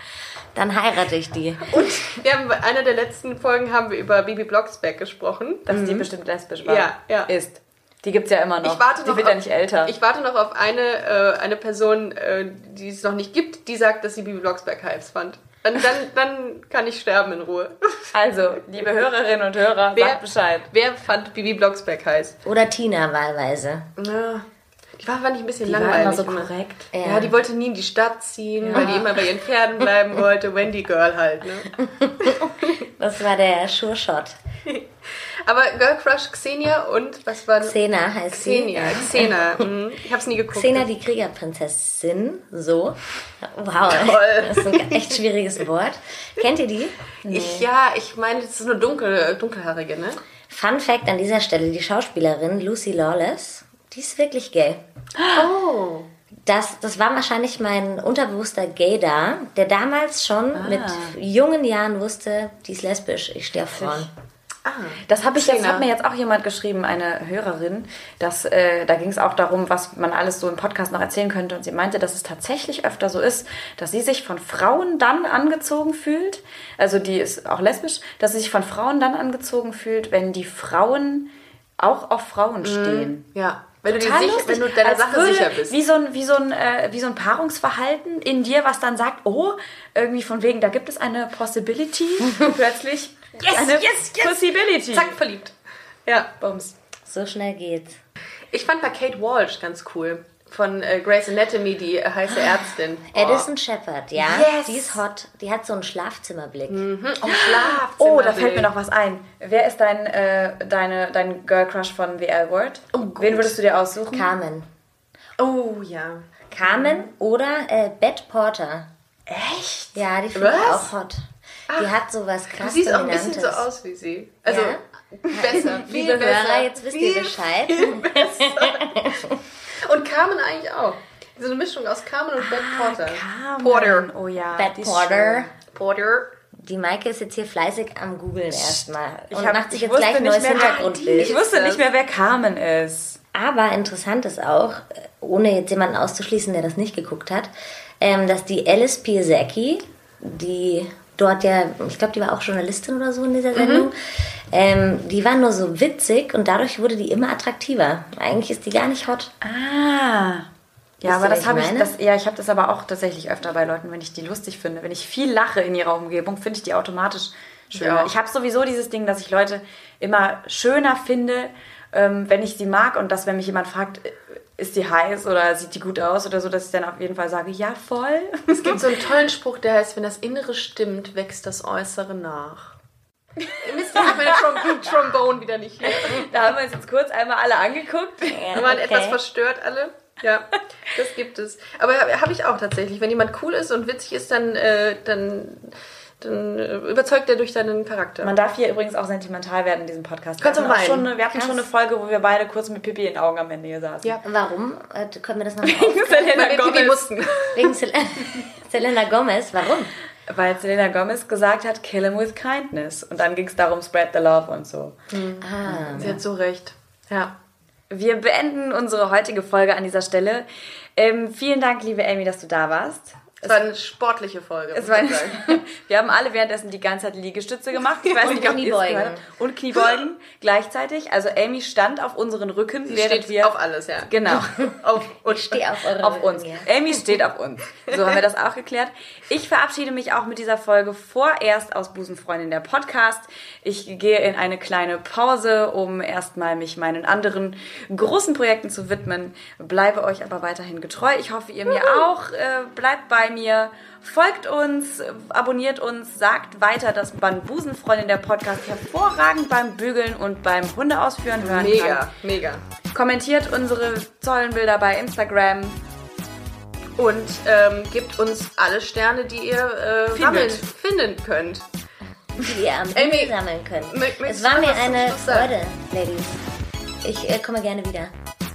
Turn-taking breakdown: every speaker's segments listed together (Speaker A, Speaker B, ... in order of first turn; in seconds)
Speaker A: 0.5-1.9, 22.4-23.9, 26.9-27.3, 28.8-29.1, 31.8-34.4, 37.6-39.7, 40.5-47.0, 50.5-54.8, 56.4-64.1, 97.0-98.0, 103.1-106.8, 114.1-114.7, 116.5-118.9, 119.9-123.7, 124.5-129.4, 134.5-135.5, 136.6-141.4, 143.3-159.3, 161.0-161.9, 188.3-189.2, 201.3-201.7, 204.2-206.4, 207.5-209.9, 215.4-216.2, 228.2-229.2, 235.2-236.7, 272.4-276.4, 277.0-278.1
Speaker B: 1.7-6.1, 6.6-7.3, 8.6-18.1, 19.9-22.4, 24.0-24.4, 25.0-31.8, 32.3-32.8, 34.7-40.9, 43.9-45.2, 47.3-50.2, 55.3-56.1, 64.6-65.9, 82.6-85.8, 93.4-95.5, 96.0-96.3, 98.5-103.5, 106.7-108.7, 112.9-113.5, 115.4-117.1, 120.3-120.9, 121.7-121.9, 122.5-129.2, 129.8-134.1, 135.6-136.3, 140.5-141.8, 153.5-153.9, 167.7-168.1, 178.5-182.7, 183.6-186.3, 188.5-198.3, 200.4-201.1, 206.3-207.4, 215.1-217.3, 223.4-225.6, 232.9-235.4, 237.9-238.2, 251.7-252.0, 261.4-262.6, 267.0-271.6, 272.9-275.6
Speaker C: 5.7-9.9, 18.1-20.7, 25.6-26.9, 28.6-29.0, 47.2-47.6, 55.2-55.4, 60.5-61.1, 63.7-64.1, 65.0-83.3, 83.9-95.2, 96.4-96.7, 104.2-104.9, 107.3-114.3, 119.3-120.0, 132.4-135.5, 139.3-143.2, 159.4-160.5, 161.0-178.8, 183.4-184.6, 185.9-188.6, 198.2-204.2, 205.6-207.6, 210.3-215.0, 215.7-216.2, 217.9-223.6, 224.7-233.5, 234.1-234.7, 235.8-262.0, 262.9-265.8, 270.1-270.6